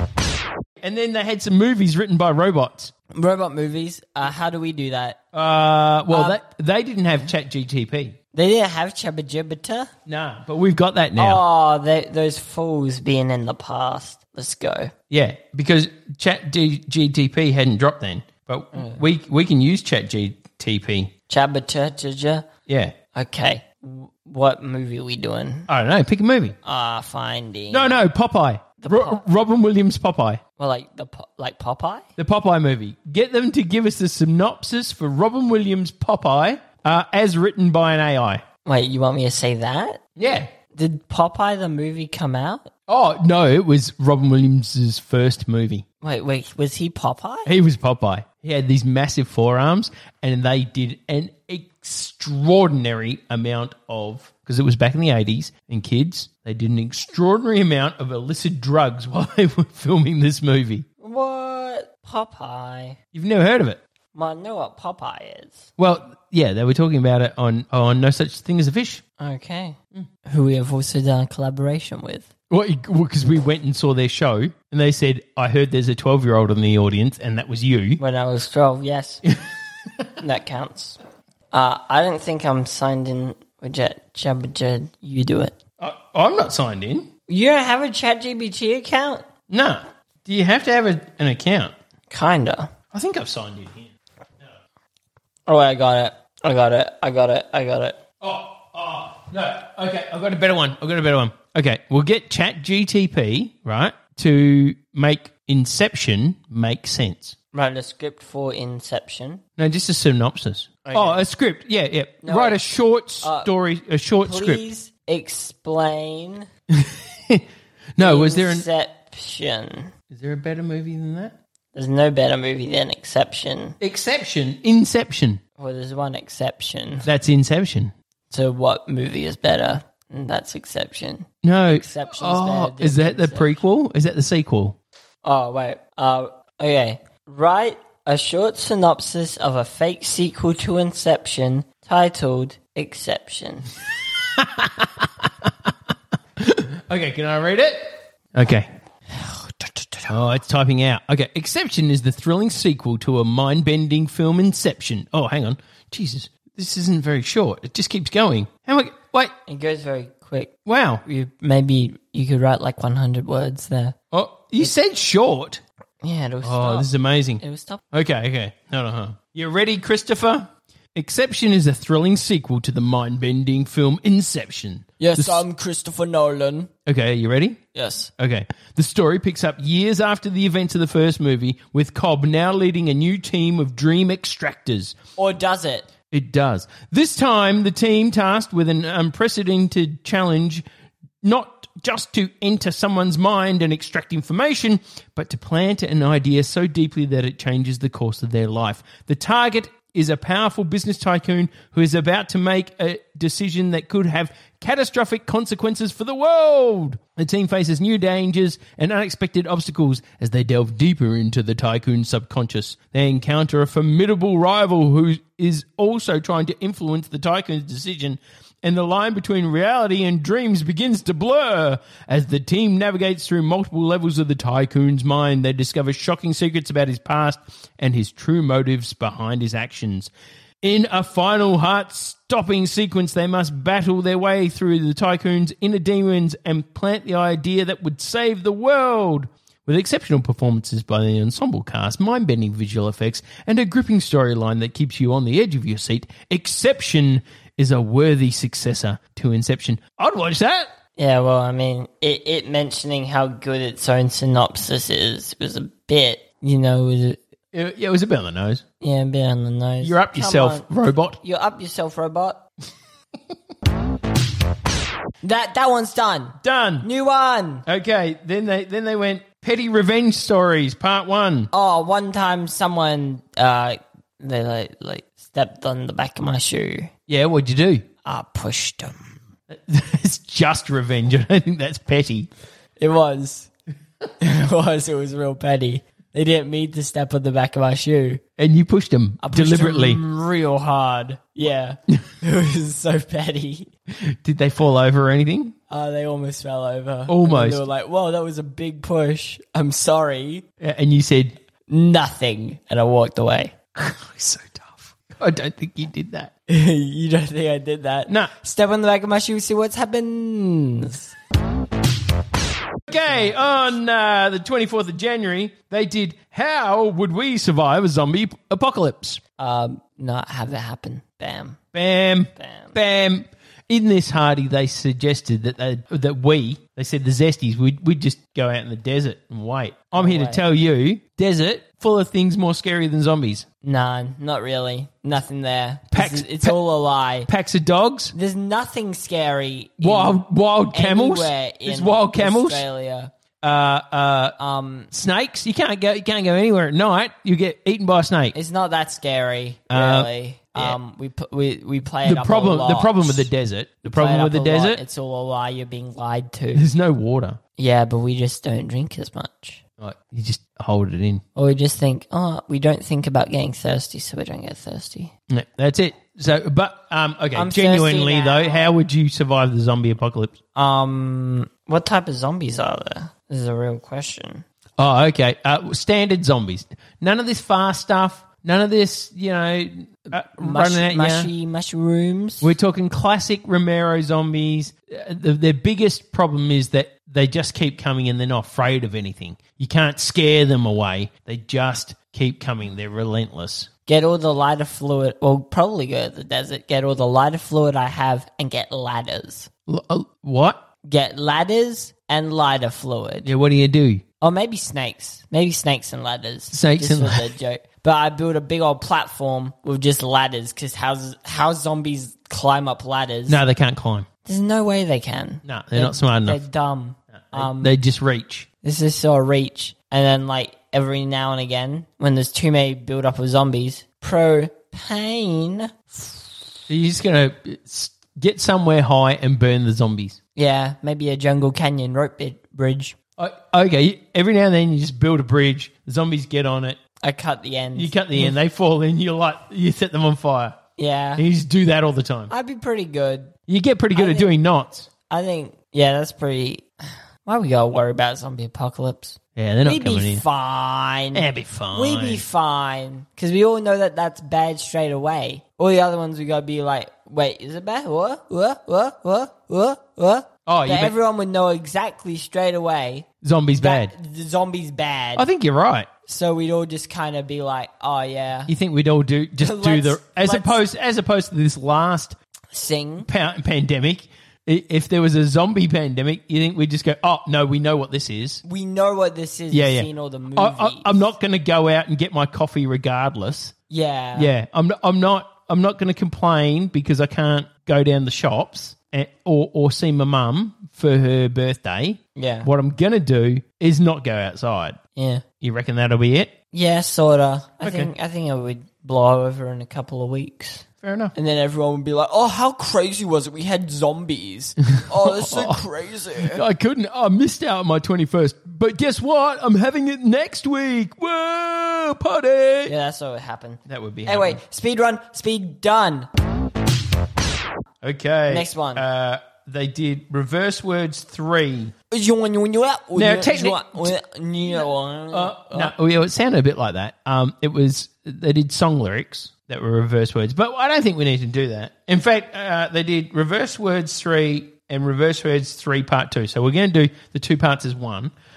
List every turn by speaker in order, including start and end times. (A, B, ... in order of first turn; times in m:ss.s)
0:00.8-0:02.9 A
0:03.1-0:05.2 B
0:05.3-0:08.2 A
0:06.1-0:06.4 B
0:08.3-0:09.9 B
0:10.1-0:11.4 A
0:11.2-0:14.9 B
0:15.1-0:21.1 A
0:18.7-0:19.0 B
0:21.3-0:22.5 B
0:22.7-0:22.9 A
0:23.1-0:25.7 B
0:25.7-0:26.6 A
0:26.6-0:28.0 B
0:27.7-0:30.4 A
0:28.8-0:29.2 B
0:30.6-0:32.1 B
0:32.2-0:38.4 A
0:38.6-0:40.0 B
0:40.2-0:40.5 A
0:40.7-0:42.7 B
0:42.9-0:45.8 A
0:46.0-0:47.5 B
0:47.5-1:00.9 A
1:01.0-1:03.0 B
1:03.1-1:03.8 A
1:04.1-1:05.7 B
1:05.8-1:09.0 A
1:09.2-1:12.3 B
1:12.5-1:18.0 A
1:18.0-1:19.2 B
1:20.2-1:21.0 B
1:21.5-1:25.6 B
1:25.8-1:27.1 A
1:27.3-1:29.3 B
1:29.5-1:31.7 A
1:32.1-1:32.7 B
1:32.9-1:33.9 A
1:35.5-1:38.0 B
1:38.2-1:47.4 A
1:47.5-1:49.4 B
1:49.6-1:54.6 A
1:50.8-1:51.2 B
1:52.2-1:52.6 B
1:53.2-1:53.5 B
1:54.2-1:56.5 B
1:56.8-1:57.4 A
1:58.0-1:58.6 A
1:58.0-1:59.9 B
2:00.1-2:01.4 A
2:01.7-2:03.8 B
2:03.8-2:05.4 A
2:05.6-2:07.1 B
2:07.0-2:07.9 A
2:08.3-2:13.6 B
2:11.4-2:14.8 A
2:15.2-2:23.7 B
2:24.4-2:25.1 A
2:26.4-2:28.7 A
2:29.2-2:30.1 B
2:30.1-2:39.3 A
2:39.5-2:44.0 B
2:40.7-2:41.0 A
2:44.1-2:45.6 A
2:46.0-2:47.8 B
2:46.4-2:47.4 A
2:47.9-2:55.4 A
2:55.0-2:56.7 B
2:56.9-2:57.6 A
2:57.7-2:58.1 B
2:58.2-3:05.0 A
3:05.2-3:05.9 B
3:06.1-3:10.6 A
3:11.2-4:10.7 A
4:11.0-4:17.2 B
4:17.5-4:18.6 A
4:18.8-4:20.7 B
4:19.8-4:21.2 A
4:21.2-4:22.4 B
4:25.2-4:27.6 B
4:26.4-4:26.9 A
4:27.7-4:31.5 A
4:31.5-4:36.9 B
4:37.1-4:37.8 A
4:38.0-4:39.1 B
4:39.5-4:42.3 A
4:42.8-4:43.5 B
4:44.2-4:48.2 B
4:48.4-4:50.0 A
4:49.2-4:53.7 B
4:54.0-4:55.5 A
4:55.7-5:00.4 B
4:57.1-4:57.6 A
5:00.6-5:01.4 A
5:01.7-5:03.5 B
5:03.8-5:06.3 A
5:06.5-5:11.1 B
5:12.9-5:19.2 A
5:19.4-5:21.6 B
5:21.7-5:33.5 A
5:22.4-5:22.8 B
5:29.9-5:30.4 B
5:33.6-5:37.3 B
5:35.9-5:36.6 A
5:37.2-5:38.1 A
5:38.1-5:43.1 B
5:39.8-5:42.7 A
5:43.4-5:44.4 A
5:44.4-5:44.9 B
5:44.9-5:48.4 A
5:48.3-5:53.3 B
5:49.7-5:50.8 A
5:52.0-5:54.8 A
5:53.9-5:56.6 B
5:56.6-5:57.4 A
5:57.6-5:59.6 B
5:59.8-6:01.2 A
6:01.4-6:05.1 B
6:05.3-6:10.4 A
6:07.3-6:08.7 B
6:10.6-6:14.4 B
6:14.8-6:21.3 A
6:20.1-6:22.5 B
6:22.4-6:33.7 A
6:33.9-6:39.5 B
6:39.7-6:40.6 A
6:40.8-6:43.3 B
6:43.2-6:44.0 A
6:44.2-6:53.4 B
6:46.5-6:47.3 A
6:53.3-6:54.1 A
6:54.2-6:57.8 B
6:55.4-6:56.4 A
6:57.3-6:58.5 A
6:58.6-7:06.4 B
7:06.7-7:10.2 A
7:10.4-7:13.0 B
7:13.2-7:16.8 A
7:17.0-7:18.4 B
7:17.8-7:20.6 A
7:20.8-7:21.2 B
7:21.2-7:22.3 A
7:22.3-7:23.3 B
7:23.5-7:24.9 A
7:23.9-7:24.4 B
7:25.1-7:43.1 B
7:29.4-7:30.2 A
7:31.1-7:32.2 A
7:40.5-7:41.0 A
7:43.2-7:43.9 A
7:43.6-7:45.2 B
7:45.2-7:45.9 A
7:46.1-7:48.5 B
7:48.5-7:52.2 A
7:49.4-7:50.6 B
7:52.5-7:53.1 B
7:53.0-7:58.4 A
7:58.4-8:01.1 B
7:59.5-8:03.5 A
8:03.7-8:04.3 B
8:04.2-8:14.8 A
8:12.2-8:12.5 B
8:15.0-8:15.2 B
8:15.4-8:16.3 A
8:16.5-8:26.4 B
8:17.6-8:17.9 A
8:20.8-8:21.2 A
8:25.0-8:25.7 A
8:26.2-8:32.7 A
8:32.7-8:36.1 B
8:33.7-8:34.4 A
8:37.8-8:41.7 A
8:38.3-8:38.8 B
8:41.9-8:45.7 B
8:43.0-8:43.9 A
8:44.6-8:58.1 A